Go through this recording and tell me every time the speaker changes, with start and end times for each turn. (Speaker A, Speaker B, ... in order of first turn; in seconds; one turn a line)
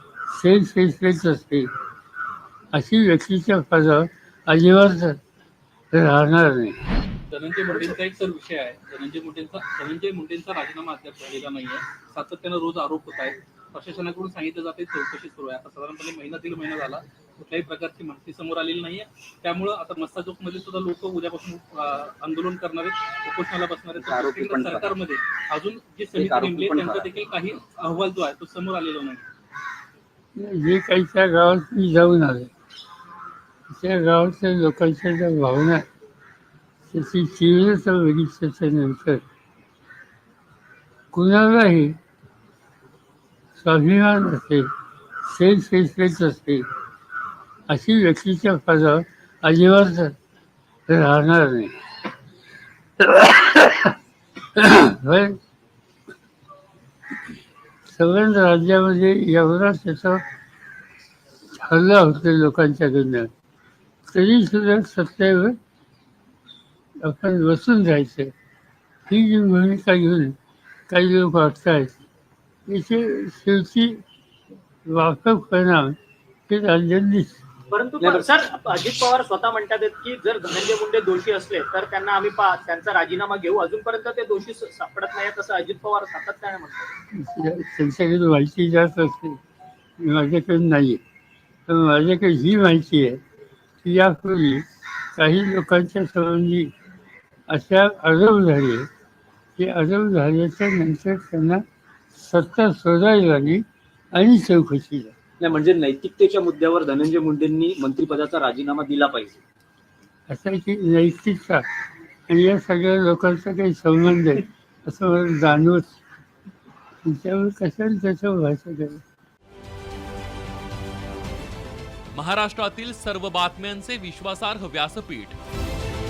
Speaker A: 0.3-1.7
Speaker A: 2.7-5.2
Speaker A: 5.9-6.8
Speaker B: 7.3-29.3
Speaker C: 24.0-24.9
Speaker C: 26.2-27.1
Speaker A: 30.4-32.5
Speaker A: 33.7-35.8
Speaker A: 36.9-39.2
Speaker A: 41.1-42.0
Speaker A: 43.6-44.7
Speaker A: 45.3-46.6
Speaker A: 47.7-50.1
Speaker A: 50.9-51.7
Speaker A: 53.0-54.0
Speaker A: 54.6-55.4
Speaker A: 57.9-60.2
Speaker A: 61.6-63.3
Speaker A: 64.1-65.5
Speaker A: 67.0-68.3
Speaker A: 69.1-70.3
Speaker A: 70.9-72.0
Speaker A: 72.7-74.0
Speaker A: 74.9-76.0
Speaker A: 76.5-77.4
Speaker D: 77.7-86.9
Speaker C: 78.0-78.3
Speaker A: 87.2-89.4
Speaker A: 90.0-91.0
Speaker A: 91.7-93.2
Speaker A: 93.8-94.7
Speaker A: 95.2-96.7
Speaker A: 97.5-98.9
Speaker A: 99.6-101.6
Speaker A: 102.2-103.6
Speaker A: 104.2-105.1
Speaker C: 105.4-109.4
Speaker A: 110.3-111.7
Speaker A: 112.3-116.0
Speaker A: 117.0-119.0
Speaker E: 122.1-125.4